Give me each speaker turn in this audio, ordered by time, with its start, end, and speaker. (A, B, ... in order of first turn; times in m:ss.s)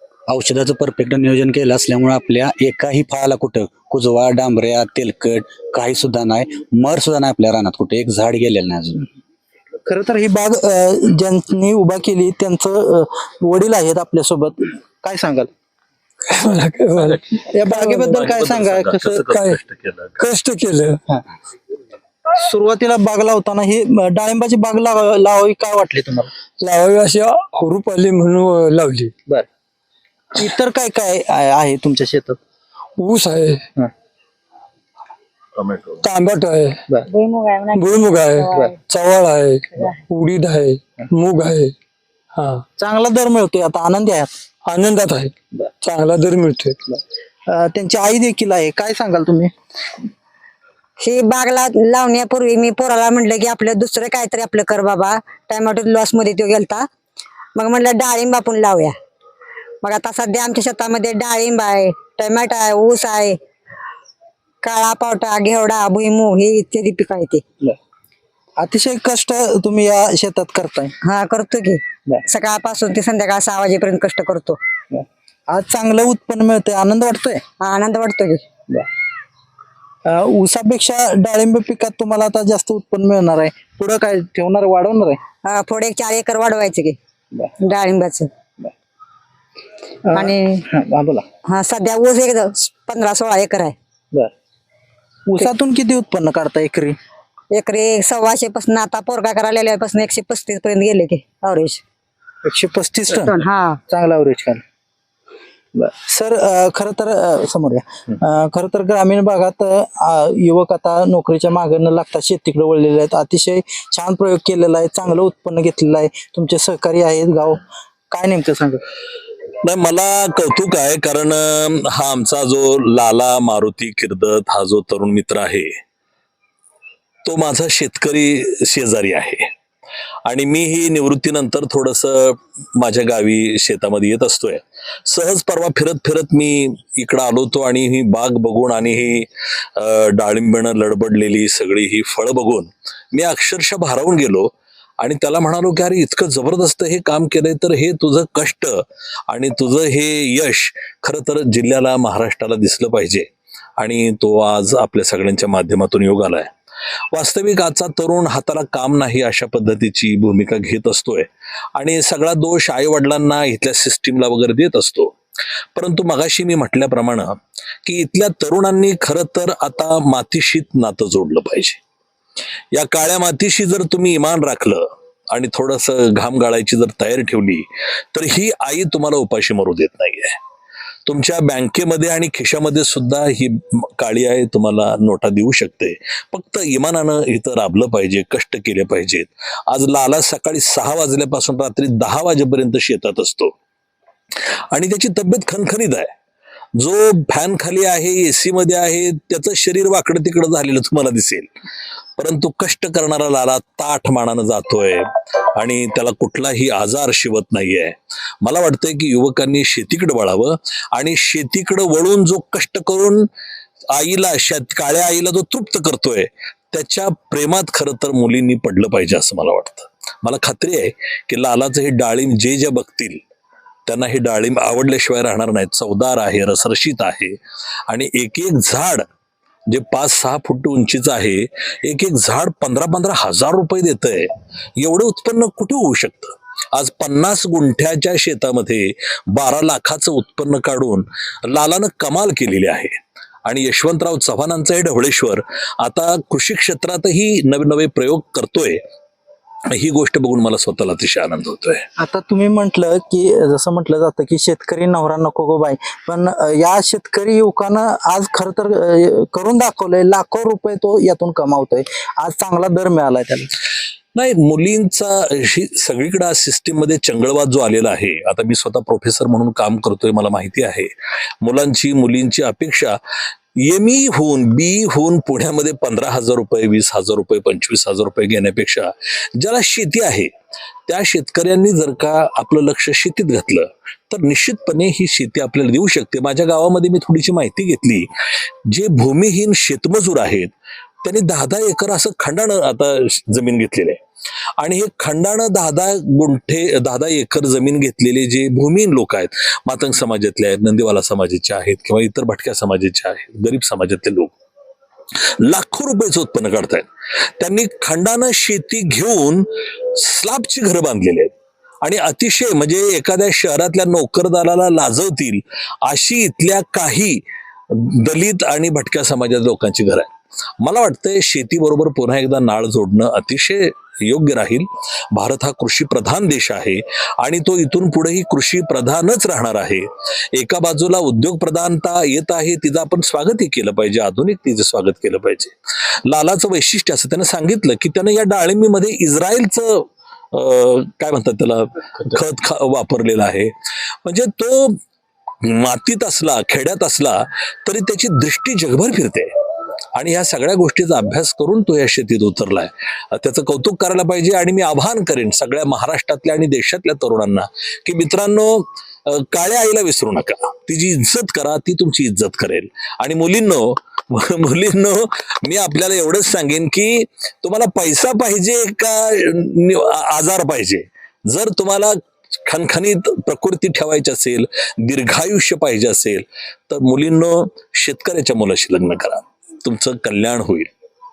0:00.3-0:09.1 A
0:09.9-0:15.5 B
0:16.3-0:17.2 C
0:17.0-0:17.4 D
0:17.5-0:19.2 B
0:18.1-0:20.2 D
0:19.2-0:19.6 C
0:20.2-0:21.0 C
0:22.4-0:26.3 B
0:26.6-0:29.1 C
0:30.4-0:32.4 B
0:33.0-0:33.6 C
0:36.0-0:36.8 C
0:37.1-0:38.8 E
0:37.7-0:41.8 C
0:42.4-0:42.6 C
0:42.8-0:44.3 B
0:44.7-0:46.8 C
0:47.5-0:49.5 B
0:51.0-0:56.9 E
0:57.6-0:58.9 E
0:59.8-1:03.4 E
1:04.6-1:07.4 E
1:08.6-1:10.9 B
1:11.0-1:14.6 E
1:14.9-1:17.4 B
1:17.6-1:18.4 E
1:20.0-1:25.2 B
1:25.4-1:27.0 E
1:27.6-1:28.3 E
1:30.1-1:31.2 B
1:30.1-1:30.6 E
1:31.5-1:33.8 E
1:35.3-1:37.0 B
1:37.5-1:41.8 E
1:42.4-1:43.3 B
1:43.1-1:43.8 E
1:43.9-1:44.6 B
1:45.8-1:58.8 B
1:59.6-2:05.8 D
2:07.2-2:09.5 D
2:10.3-2:33.3 D
2:33.8-2:36.5 D
2:37.1-2:45.2 D
2:45.8-2:51.8 D
2:52.7-3:00.4 D
3:01.1-3:13.5 D
3:14.7-3:16.1 D
3:16.8-3:21.5 D
3:22.2-3:25.0 D
3:25.6-3:33.2 D
3:33.9-3:43.2 D
3:43.9-3:47.4 D
3:47.9-3:49.1 D
3:49.7-4:08.8 D
4:09.7-4:11.9 D
4:12.0-4:23.5 B
4:24.2-4:30.9 D
4:31.4-4:33.0 D
4:33.6-4:40.3 D
4:40.9-4:48.1 D
4:48.7-4:54.0 D
4:54.6-5:04.3 D
5:05.5-5:06.9 D
5:07.4-5:35.5 D
5:36.1-5:43.5 D
5:44.0-5:44.8 D
5:45.4-5:49.3 D
5:49.9-6:11.9 D
6:12.5-6:20.7 D